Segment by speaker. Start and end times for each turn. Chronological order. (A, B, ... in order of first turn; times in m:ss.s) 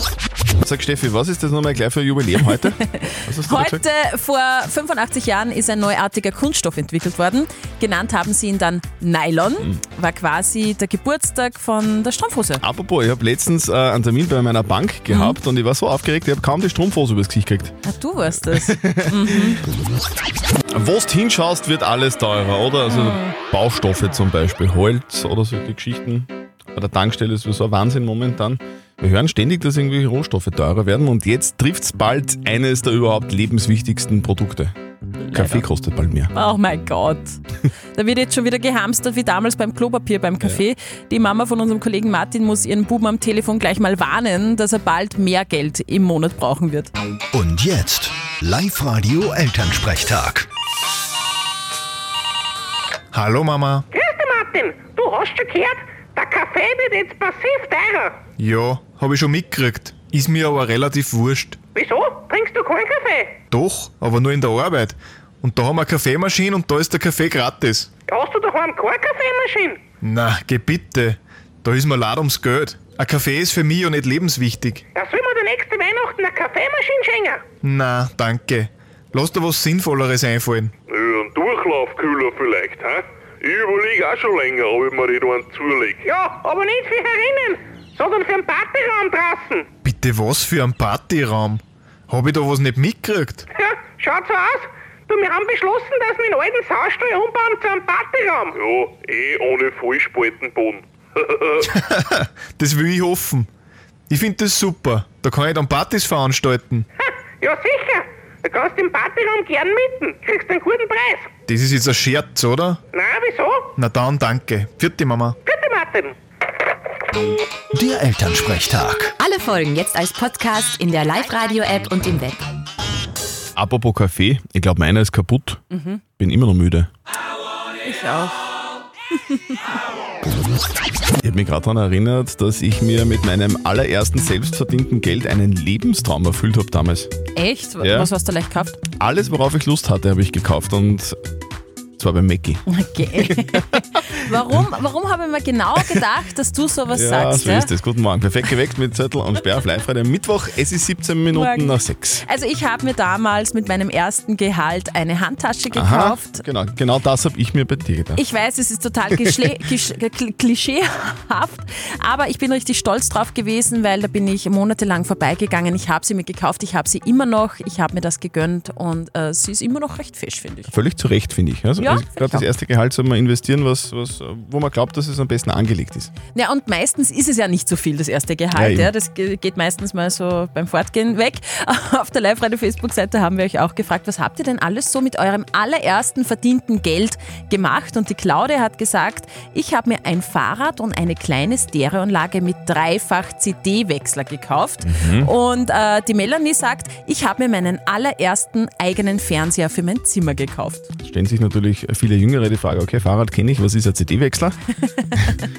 0:00.6-0:02.7 A
0:02.5-0:12.6 B
0:03.2-0:03.8 A
0:12.6-0:17.7 A
0:15.1-0:15.4 B
0:17.8-0:19.6 B
0:18.7-0:19.1 A
0:20.7-0:34.7 A
0:22.9-0:23.3 B
0:35.2-0:35.6 B
0:35.3-0:36.3 A
0:36.3-0:37.4 B
0:38.0-0:46.9 B
0:47.3-0:50.5 C
0:53.1-0:53.8 D
0:53.9-0:58.2 E
0:58.4-1:01.6 D
1:01.7-1:03.3 E
1:03.5-1:07.9 D
1:08.1-1:09.8 E
1:10.0-1:14.8 D
1:14.9-1:17.4 E
1:17.6-1:20.7 D
1:20.9-1:26.0 F
1:26.0-1:29.7 E
1:29.8-1:33.5 D
1:33.5-1:38.5 E
1:38.5-1:41.6 F
1:41.7-1:43.5 D
1:44.1-1:46.8 D
1:47.0-1:51.3 E
1:51.5-1:52.8 D
1:52.9-1:53.7 E
1:53.8-1:55.4 D
1:55.5-1:56.2 E
1:57.7-1:59.2 C
1:59.2-2:02.4 G
2:03.6-2:05.6 A
2:05.7-2:06.0 B
2:06.2-2:06.9 A
2:07.9-2:08.4 B
2:11.2-2:17.1 A
2:17.3-2:18.8 B
2:17.8-2:18.1 A
2:19.0-2:21.2 A
2:22.0-2:22.6 A
2:22.7-2:27.7 B
2:26.9-2:32.2 A
2:31.3-2:36.4 B
2:35.8-2:38.2 A
2:38.2-2:50.8 B
2:50.7-2:56.1 A
2:51.8-2:52.5 B
2:56.3-3:20.9 B
2:58.6-2:58.9 A
3:14.8-3:15.3 A
3:21.0-3:24.6 A